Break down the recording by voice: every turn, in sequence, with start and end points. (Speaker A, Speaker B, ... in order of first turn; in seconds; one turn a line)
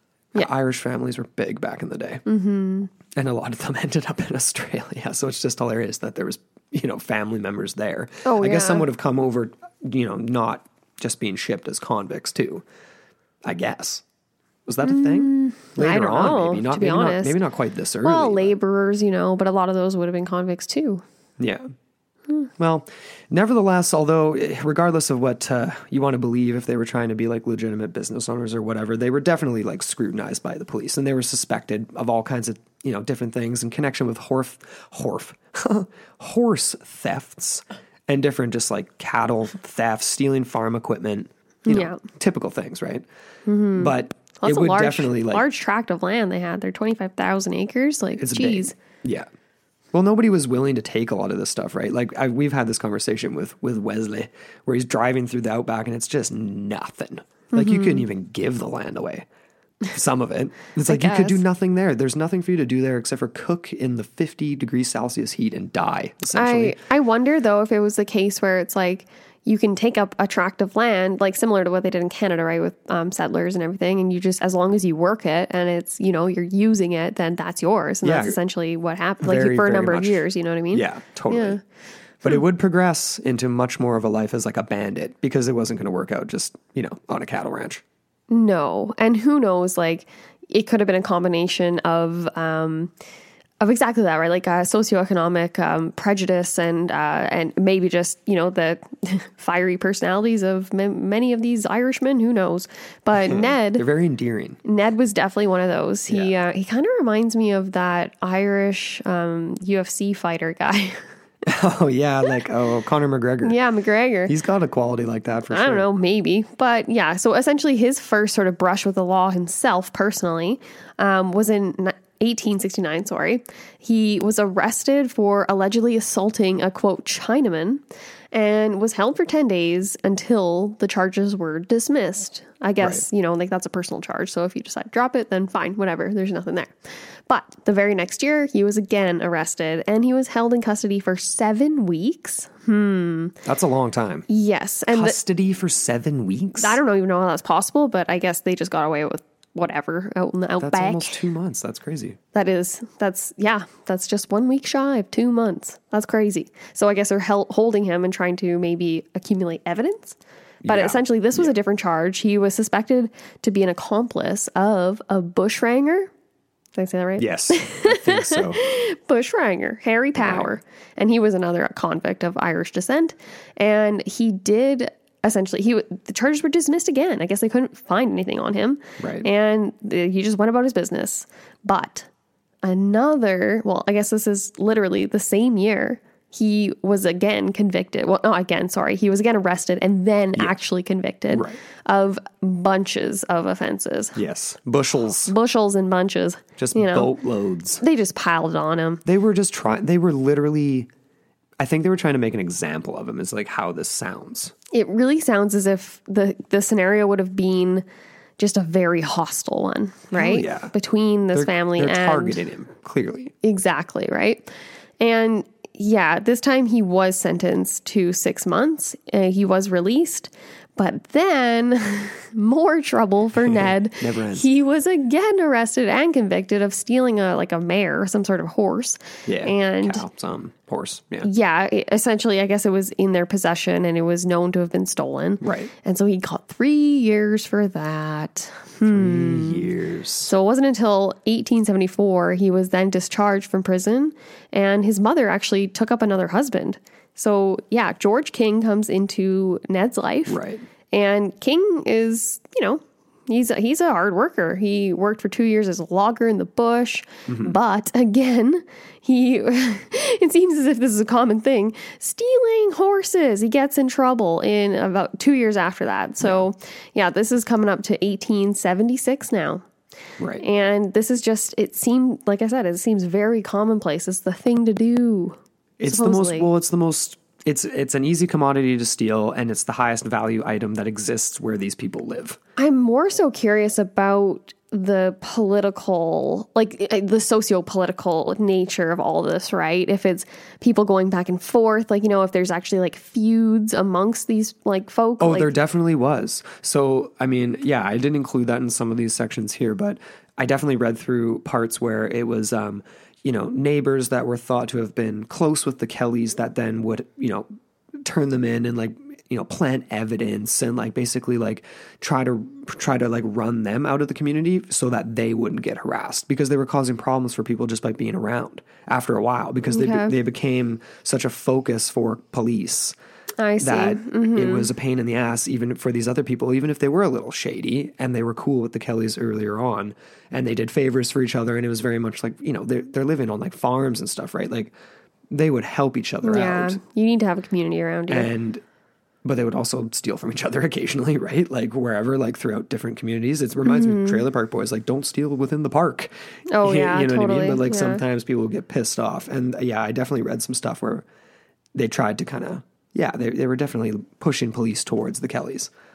Speaker A: 0.3-2.2
Speaker B: 2.2-2.9
Speaker A: 3.1-12.6
Speaker B: 8.2-8.9
Speaker A: 13.4-14.0
Speaker A: 14.7-18.5
Speaker B: 14.8-17.4
Speaker B: 18.0-21.0
Speaker A: 21.4-21.6
Speaker A: 22.6-43.0
Speaker B: 41.6-42.0
Speaker B: 43.5-48.7
Speaker A: 43.8-45.5
Speaker A: 48.2-49.3
Speaker A: 49.9-59.2
Speaker B: 57.5-58.0
Speaker A: 59.9-66.8
Speaker B: 60.9-61.4
Speaker B: 66.3-81.6
Speaker A: 78.0-78.4
Speaker A: 79.2-81.6
Speaker A: 82.2-87.8
Speaker B: 88.3-92.9
Speaker B: 93.6-103.8
Speaker A: 103.1-104.6
Speaker B: 104.6-111.1
Speaker A: 111.5-113.6
Speaker B: 113.4-114.3
Speaker A: 114.3-115.9
Speaker B: 115.5-143.3
Speaker A: 143.4-144.2
Speaker B: 144.3-145.2
Speaker A: 144.9-146.8
Speaker B: 146.6-151.2
Speaker A: 150.6-152.2
Speaker B: 152.3-166.1
Speaker A: 160.6-161.5
Speaker B: 166.8-182.1
Speaker A: 167.2-168.6
Speaker A: 170.2-170.5
Speaker A: 179.0-179.3
Speaker B: 182.6-194.1
Speaker A: 191.3-191.6
Speaker A: 194.1-195.3
Speaker B: 195.2-197.1
Speaker A: 196.6-197.8
Speaker B: 197.8-199.0
Speaker A: 199.0-200.9
Speaker A: 201.6-204.5
Speaker B: 204.7-207.8
Speaker B: 208.4-212.4
Speaker A: 210.1-210.7
Speaker A: 211.3-213.3
Speaker B: 213.4-230.0
Speaker A: 223.4-224.5
Speaker A: 229.2-231.3
Speaker B: 231.2-239.7
Speaker A: 235.4-235.7
Speaker A: 238.9-240.3
Speaker B: 240.3-250.4
Speaker A: 250.3-250.6
Speaker B: 250.9-269.6
Speaker A: 257.3-257.5
Speaker A: 270.2-270.4
Speaker B: 270.4-276.5
Speaker A: 275.8-282.4
Speaker B: 282.6-295.5
Speaker A: 295.2-307.5
Speaker A: 308.0-322.9
Speaker B: 319.7-320.1
Speaker B: 323.4-324.7
Speaker A: 323.6-334.7
Speaker A: 335.3-336.8
Speaker B: 336.2-338.3
Speaker A: 338.1-338.6
Speaker A: 339.2-351.0
Speaker B: 343.6-344.2
Speaker B: 346.5-348.0
Speaker A: 351.7-355.7